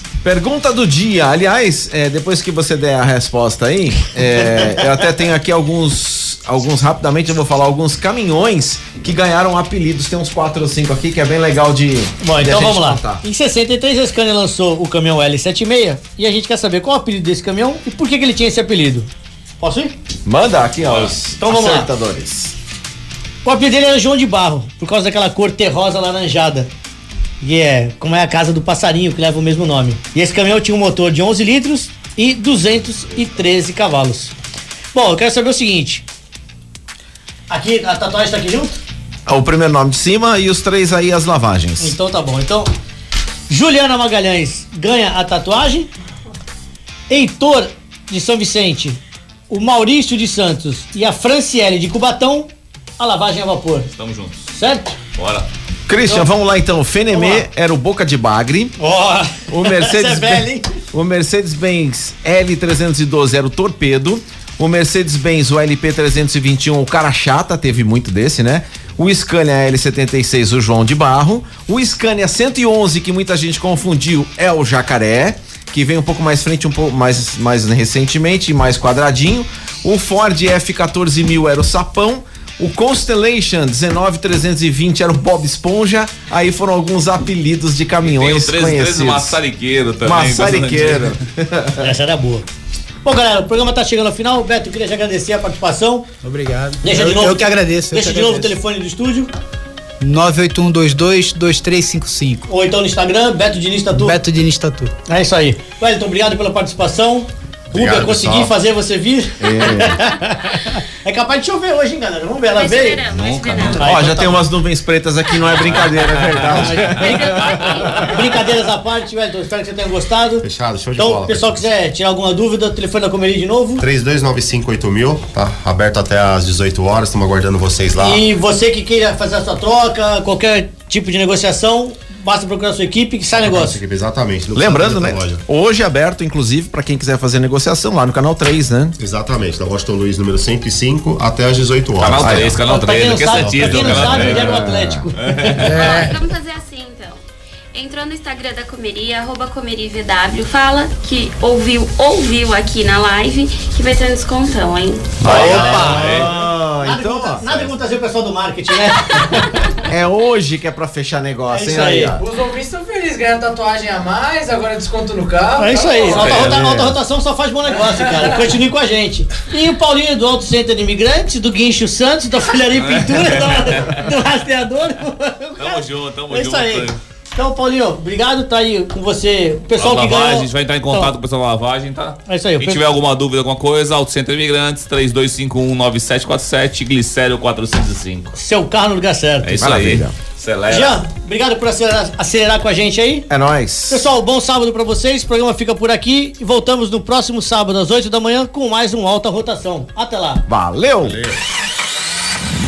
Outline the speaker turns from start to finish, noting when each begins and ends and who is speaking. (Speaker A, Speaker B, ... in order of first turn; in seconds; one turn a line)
Speaker A: 0.2-13.2
Speaker B: 12.2-19.1
Speaker B: 19.6-19.9
Speaker A: 20.3-22.5
Speaker C: 20.8-21.1
Speaker B: 21.4-21.9
Speaker B: 23.4-26.7
Speaker B: 27.4-34.3
Speaker B: 34.9-36.0
Speaker B: 37.5-38.8
Speaker A: 39.3-42.0
Speaker B: 41.8-42.7
Speaker B: 43.5-45.9
Speaker B: 47.1-53.9
Speaker C: 54.0-54.5
Speaker B: 54.5-55.0
Speaker C: 55.1-55.5
Speaker A: 55.9-58.7
Speaker B: 56.0-56.3
Speaker B: 57.1-57.5
Speaker B: 58.8-60.8
Speaker A: 59.5-89.4
Speaker C: 88.0-91.1
Speaker A: 90.0-91.9
Speaker B: 91.8-92.5
Speaker B: 93.0-96.1
Speaker D: 96.2-98.6
Speaker B: 96.8-99.3
Speaker D: 100.0-102.5
Speaker B: 102.5-104.2
Speaker D: 103.9-104.9
Speaker B: 105.1-113.0
Speaker E: 107.7-108.6
Speaker A: 109.4-110.1
Speaker F: 112.5-114.2
Speaker C: 113.1-113.9
Speaker B: 113.6-114.5
Speaker A: 113.8-118.2
Speaker C: 115.7-117.5
Speaker B: 116.5-123.8
Speaker F: 117.5-118.0
Speaker E: 120.4-121.7
Speaker E: 123.8-128.2
Speaker B: 128.0-133.8
Speaker E: 133.4-135.4
Speaker A: 134.6-139.0
Speaker E: 139.0-142.6
Speaker C: 142.0-144.5
Speaker A: 142.2-142.5
Speaker B: 142.7-146.0
Speaker E: 143.4-144.3
Speaker A: 144.0-145.1
Speaker C: 145.2-145.6
Speaker F: 145.6-147.2
Speaker D: 145.7-146.1
Speaker F: 147.7-155.4
Speaker A: 155.2-157.7
Speaker B: 155.2-156.3
Speaker C: 155.2-156.3
Speaker B: 156.8-159.8
Speaker A: 159.9-162.2
Speaker B: 161.5-162.1
Speaker G: 162.2-166.6
Speaker B: 165.6-181.1
Speaker C: 166.1-166.6
Speaker A: 166.4-167.0
Speaker G: 167.8-168.5
Speaker C: 172.7-174.1
Speaker C: 175.6-177.0
Speaker C: 179.8-188.3
Speaker B: 182.3-182.8
Speaker B: 188.4-189.6
Speaker C: 189.4-191.0
Speaker A: 189.6-190.1
Speaker B: 190.7-193.3
Speaker A: 193.3-194.1
Speaker B: 193.9-200.4
Speaker A: 200.5-201.2
Speaker E: 201.0-201.4